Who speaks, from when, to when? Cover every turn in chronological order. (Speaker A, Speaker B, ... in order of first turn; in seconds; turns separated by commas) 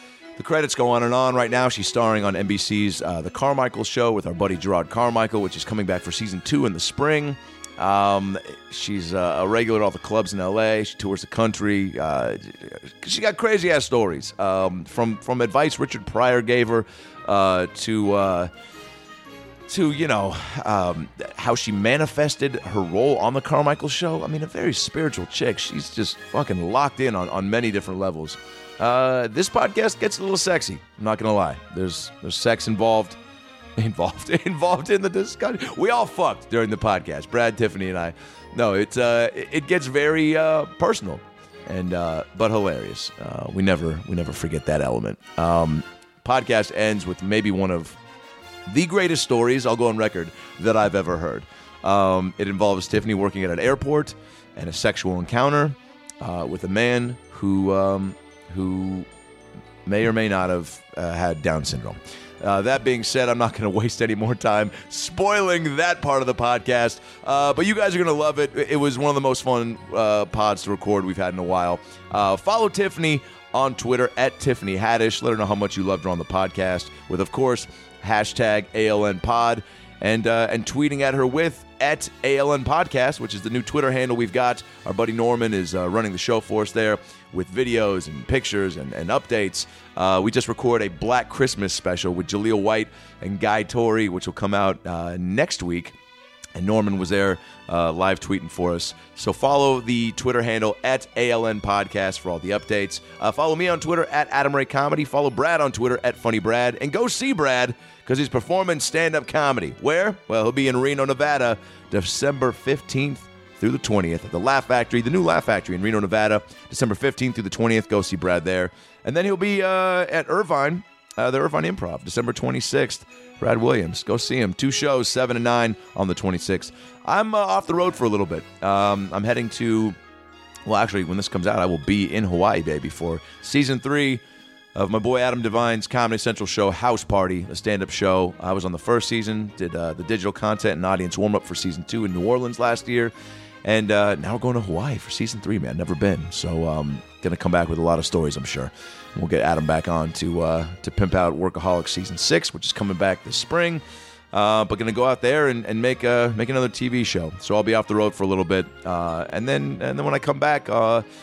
Speaker A: 0.4-18.5, Speaker A: 19.7-33.2, Speaker A: 33.8-48.0, Speaker A: 48.7-59.1, Speaker A: 59.8-96.0, Speaker A: 96.5-129.9, Speaker A: 130.7-134.2, Speaker A: 134.7-143.1, Speaker A: 143.6-153.8, Speaker A: 154.3-161.0